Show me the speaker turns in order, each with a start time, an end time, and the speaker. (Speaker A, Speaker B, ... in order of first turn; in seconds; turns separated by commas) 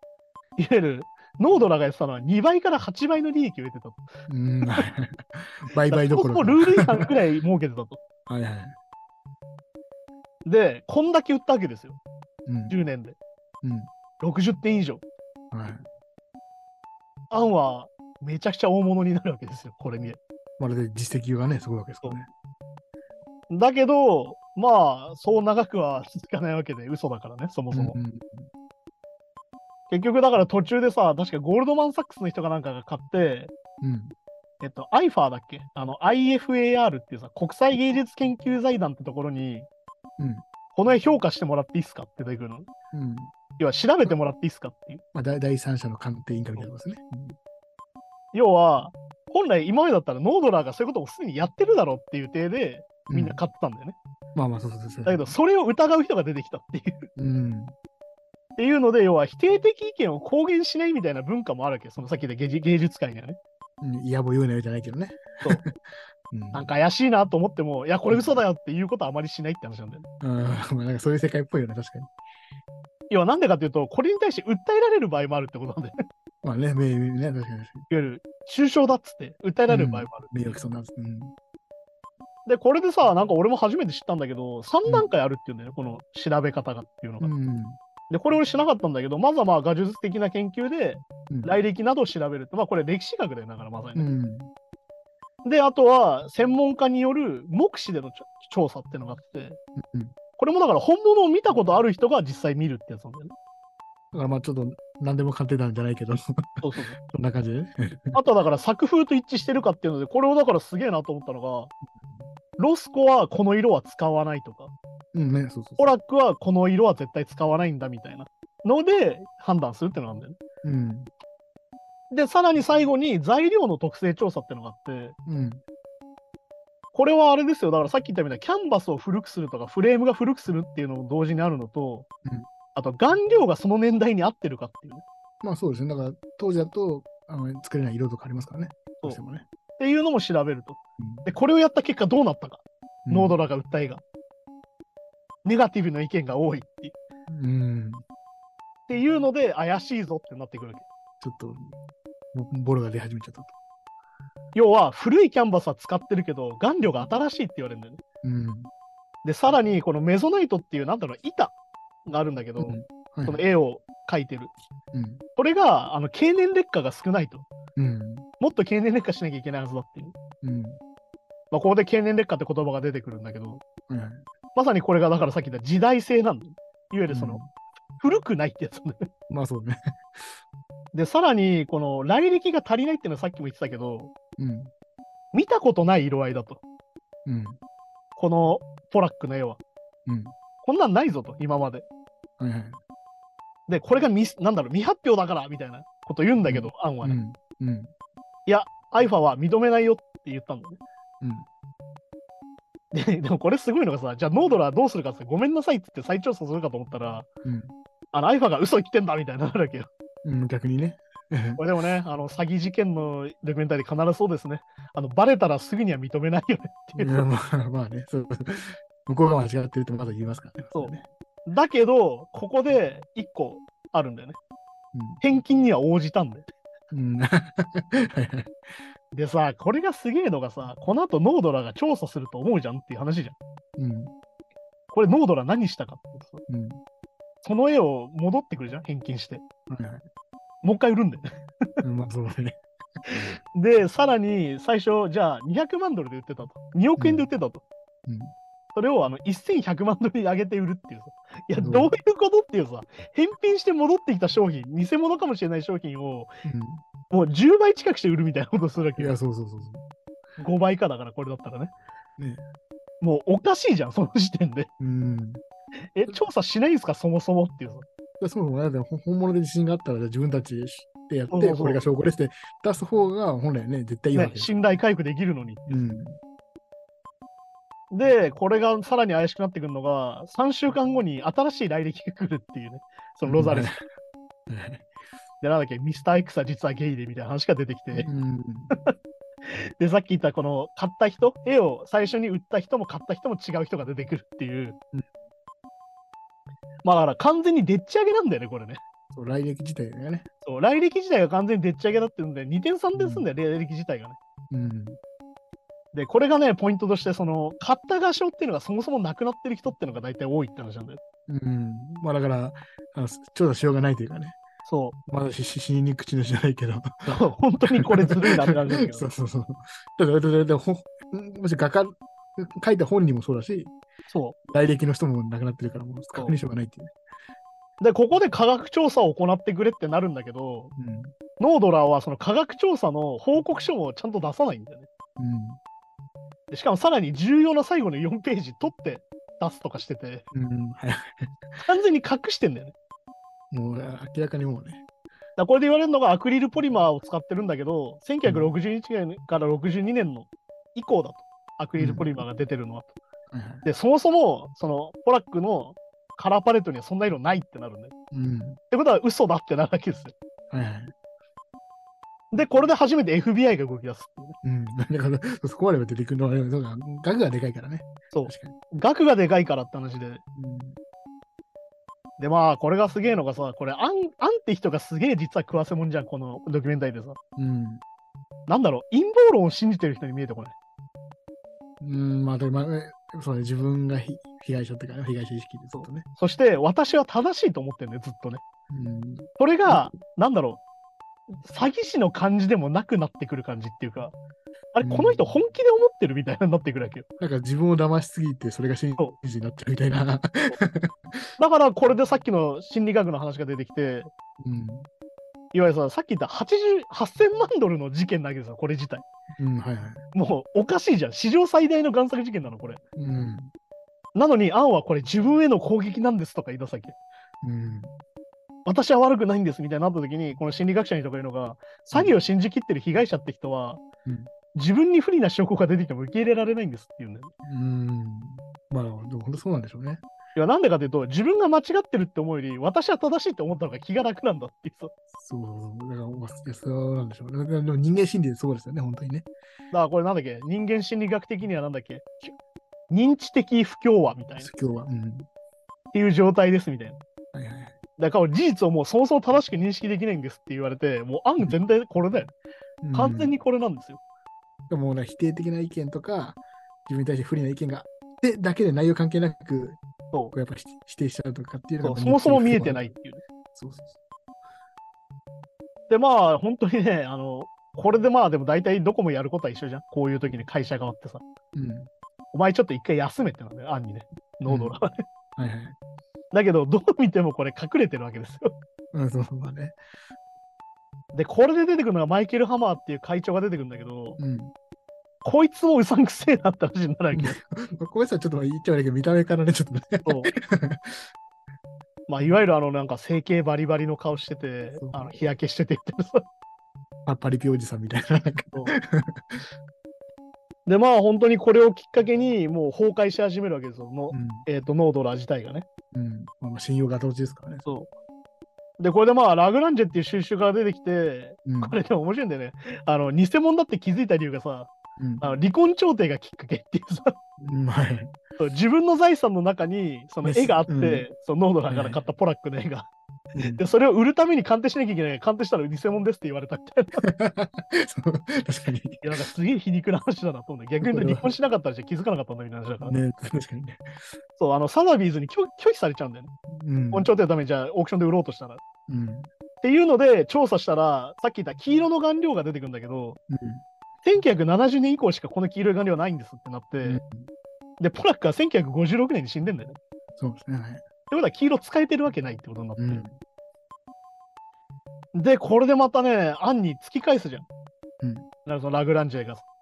Speaker A: 0.6-4.0, Speaker B: 4.3-7.1, Speaker A: 5.8-8.0, Speaker B: 8.3-8.8, Speaker A: 10.4-12.0, Speaker B: 12.5-12.8, Speaker A: 12.7-13.2, Speaker B: 13.6-13.9, Speaker A: 14.2-15.0, Speaker B: 15.5-15.8, Speaker A: 17.3-20.2, Speaker B: 20.6-22.3, Speaker A: 23.5-28.0, Speaker B: 27.7-28.5, Speaker A: 29.9-33.5, Speaker B: 33.8-34.1, Speaker A: 34.6-39.7, Speaker B: 40.2-40.4, Speaker A: 40.8-42.7, Speaker B: 42.9-43.3, Speaker A: 43.6-45.0, Speaker B: 45.1-47.4, Speaker A: 48.3-54.0, Speaker B: 53.1-53.4, Speaker B: 54.4-55.4, Speaker A: 55.0-57.1, Speaker B: 57.1-57.8, Speaker A: 58.6-63.4, Speaker B: 63.8-66.7, Speaker A: 66.5-70.0, Speaker B: 68.1-68.4, Speaker B: 70.2-72.1, Speaker A: 73.1-76.0, Speaker B: 76.4-77.8, Speaker A: 77.9-80.3, Speaker B: 79.7-81.3, Speaker A: 82.5-87.3, Speaker B: 87.2-87.8, Speaker A: 88.1-94.1, Speaker B: 91.3-91.5, Speaker B: 94.0-94.5, Speaker A: 95.4-99.6, Speaker B: 99.8-100.1, Speaker A: 100.4-103.3, Speaker B: 104.1-108.2, Speaker A: 106.6-107.0, Speaker A: 108.1-111.7, Speaker B: 112.0-112.3, Speaker A: 112.6-114.7, Speaker B: 115.1-115.9, Speaker A: 115.8-120.4, Speaker B: 120.6-121.1, Speaker A: 122.1-125.1, Speaker B: 125.3-125.6, Speaker A: 126.9-132.1, Speaker A: 132.8-135.0, Speaker B: 135.4-139.4, Speaker A: 139.8-144.0, Speaker B: 141.0-141.3, Speaker B: 143.1-143.4, Speaker A: 145.4-146.9, Speaker B: 147.3-148.0, Speaker A: 148.9-150.8, Speaker B: 151.2-151.8, Speaker B: 152.3-153.5, Speaker A: 154.6-158.0, Speaker B: 158.2-158.7, Speaker A: 159.2-161.5, Speaker A: 162.1-164.5, Speaker B: 162.6-163.4, Speaker B: 164.9-165.2, Speaker A: 165.4-167.5, Speaker B: 167.8-168.3, Speaker A: 168.4-170.1, Speaker B: 170.4-170.8, Speaker A: 171.5-173.6, Speaker B: 173.9-174.2, Speaker A: 174.6-177.4, Speaker B: 177.1-177.5, Speaker A: 178.0-179.1, Speaker B: 179.3-180.3, Speaker A: 180.9-184.1, Speaker B: 184.4-184.7, Speaker A: 185.3-186.6, Speaker B: 187.2-187.6, Speaker A: 188.2-189.6, Speaker B: 190.1-190.3, Speaker A: 190.6-191.8, Speaker B: 192.4-192.8, Speaker A: 193.7-197.2, Speaker B: 196.4-197.9, Speaker A: 198.5-200.8, Speaker B: 201.2-201.5, Speaker A: 202.9-207.3, Speaker B: 207.4-207.7, Speaker A: 208.1-209.9, Speaker B: 210.2-211.6, Speaker A: 211.6-217.3, Speaker B: 217.0-221.1, Speaker A: 220.7-224.4, Speaker B: 224.9-225.2, Speaker A: 225.2-226.5, Speaker B: 226.9-228.6, Speaker A: 229.1-233.4, Speaker B: 233.8-234.1, Speaker A: 234.9-236.4, Speaker B: 236.5-236.8, Speaker A: 237.4-239.4, Speaker B: 239.7-240.1, Speaker A: 240.6-241.3, Speaker B: 241.8-242.6, Speaker A: 243.1-247.6, Speaker B: 247.0-247.3, Speaker B: 248.1-248.3, Speaker A: 248.7-256.3, Speaker B: 251.6-251.9, Speaker B: 256.4-256.8, Speaker A: 257.1-259.1, Speaker B: 259.0-259.8, Speaker A: 260.4-261.7, Speaker B: 262.2-262.4, Speaker A: 263.0-264.7, Speaker B: 264.8-265.4, Speaker A: 265.9-267.9, Speaker B: 268.2-274.5, Speaker A: 271.3-271.8, Speaker A: 274.1-275.6, Speaker B: 275.7-276.2, Speaker A: 277.9-283.7, Speaker B: 283.3-283.8, Speaker B: 284.5-284.9, Speaker A: 285.4-288.1, Speaker B: 288.0-288.7, Speaker A: 289.5-294.8, Speaker A: 296.8-298.8, Speaker B: 299.1-300.3, Speaker A: 300.4-304.2, Speaker B: 302.9-303.3, Speaker B: 304.5-305.0, Speaker A: 305.9-311.0, Speaker B: 311.3-314.4, Speaker A: 314.6-315.0, Speaker B: 315.1-317.2, Speaker A: 317.1-319.1, Speaker B: 317.8-323.7, Speaker A: 324.1-324.4, Speaker B: 324.4-326.9, Speaker A: 327.8-330.7, Speaker B: 330.8-331.1, Speaker A: 331.4-334.9, Speaker B: 335.2-335.6, Speaker A: 336.5-340.2, Speaker B: 340.3-341.6, Speaker A: 341.6-342.7, Speaker B: 343.5-344.8, Speaker A: 345.4-352.9, Speaker B: 348.2-348.5, Speaker B: 351.8-352.2, Speaker B: 353.3-353.6, Speaker A: 353.6-357.9, Speaker B: 358.1-358.6, Speaker A: 358.7-360.1, Speaker B: 360.5-360.9, Speaker A: 362.3-364.4, Speaker B: 364.4-368.6, Speaker A: 368.1-370.2, Speaker B: 370.4-370.8, Speaker A: 372.2-377.2, Speaker B: 377.4-377.8, Speaker A: 378.5-380.6, Speaker B: 381.8-386.1, Speaker A: 385.7-388.4, Speaker B: 388.7-389.9, Speaker A: 389.4-390.6, Speaker A: 391.3-394.1, Speaker A: 394.8-397.1, Speaker B: 394.8-395.2, Speaker B: 397.2-401.2, Speaker A: 401.4-404.1, Speaker B: 404.4-404.9, Speaker A: 405.5-409.1, Speaker B: 409.4-410.0, Speaker A: 410.1-412.8, Speaker B: 413.0-413.5, Speaker A: 414.1-417.0, Speaker B: 417.4-417.9, Speaker A: 418.6-423.8, Speaker B: 424.1-424.3, Speaker A: 424.5-427.3, Speaker B: 427.4-430.0, Speaker A: 430.4-434.9, Speaker B: 435.1-439.3, Speaker A: 439.7-442.3, Speaker A: 442.9-444.5, Speaker B: 444.4-445.3, Speaker A: 445.9-447.0, Speaker B: 447.3-447.8, Speaker A: 448.0-452.3, Speaker B: 452.8-453.3, Speaker A: 452.9-454.0, Speaker B: 454.7-459.8, Speaker B: 460.3-462.9, Speaker A: 461.8-463.2, Speaker B: 463.6-464.0, Speaker A: 465.9-471.2, Speaker B: 471.5-471.9, Speaker A: 472.3-475.0, Speaker B: 474.5-474.8, Speaker B: 475.4-475.8, Speaker A: 476.3-478.6, Speaker B: 478.9-479.8, Speaker A: 481.1-484.2, Speaker B: 484.2-484.5, Speaker A: 485.2-487.4, Speaker B: 487.1-491.1, Speaker A: 490.0-490.3, Speaker A: 492.1-496.2, Speaker B: 494.8-495.3, Speaker B: 497.1-499.4, Speaker A: 500.6-505.6, Speaker B: 504.1-504.5, Speaker B: 505.9-507.8, Speaker A: 508.8-517.1, Speaker B: 511.5-511.8, Speaker B: 515.0-515.3, Speaker B: 517.4-518.2, Speaker A: 518.4-522.9, Speaker B: 520.2-521.1, Speaker B: 521.7-522.0, Speaker B: 523.3-523.6, Speaker A: 523.5-527.0, Speaker B: 527.0-529.1, Speaker A: 529.0-533.0, Speaker B: 530.8-531.4, Speaker B: 532.9-534.1, Speaker A: 534.4-536.3, Speaker B: 536.5-537.1, Speaker A: 536.9-538.6, Speaker B: 538.9-539.3, Speaker A: 539.6-543.2, Speaker B: 543.3-543.6, Speaker A: 544.0-547.0, Speaker B: 546.8-547.3, Speaker A: 547.8-549.8, Speaker B: 550.2-550.8, Speaker A: 551.1-553.0, Speaker B: 552.8-553.2, Speaker A: 555.1-557.5, Speaker B: 558.0-558.3, Speaker A: 558.5-559.5